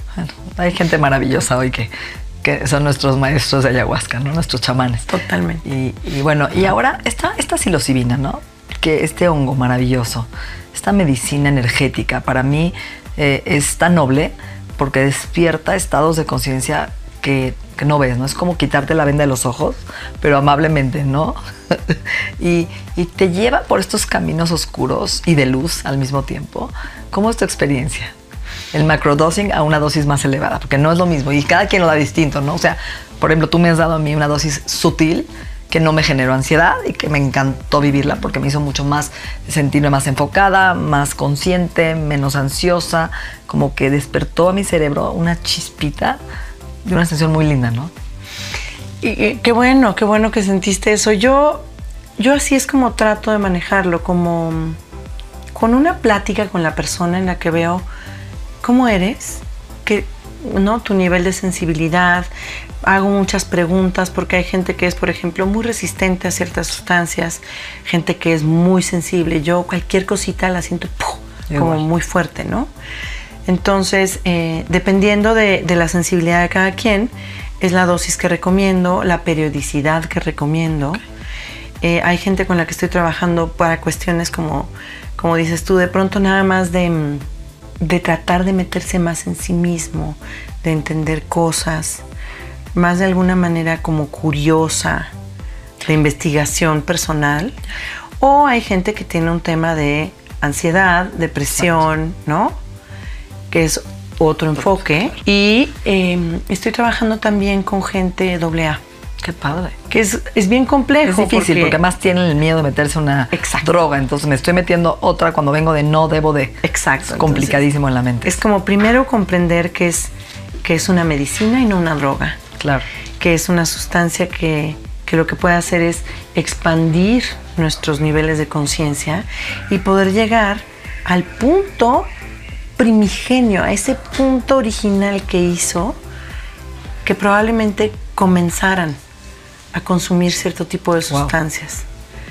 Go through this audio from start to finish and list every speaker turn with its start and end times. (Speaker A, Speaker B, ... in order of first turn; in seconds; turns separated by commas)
Speaker A: 0.1-1.9, Speaker A: 2.4-5.1, Speaker B: 5.1-5.6, Speaker A: 5.6-28.1, Speaker A: 28.7-46.2, Speaker A: 46.8-47.9, Speaker B: 49.0-51.7, Speaker B: 52.2-54.8, Speaker B: 55.5-57.9, Speaker B: 58.6-62.3, Speaker B: 62.8-72.7, Speaker A: 71.5-71.8, Speaker B: 73.5-81.0, Speaker B: 81.8-87.2, Speaker B: 87.8-92.0, Speaker B: 92.7-95.1, Speaker B: 95.8-97.6, Speaker B: 98.2-102.5, Speaker B: 103.5-108.8, Speaker A: 109.2-109.8, Speaker B: 109.9-111.8, Speaker A: 111.0-118.4, Speaker B: 113.3-113.7, Speaker B: 116.6-117.6, Speaker B: 118.2-120.1, Speaker B: 120.6-122.4, Speaker A: 122.6-122.8, Speaker B: 123.2-132.1, Speaker B: 132.8-136.0, Speaker B: 137.0-139.0, Speaker B: 139.7-141.8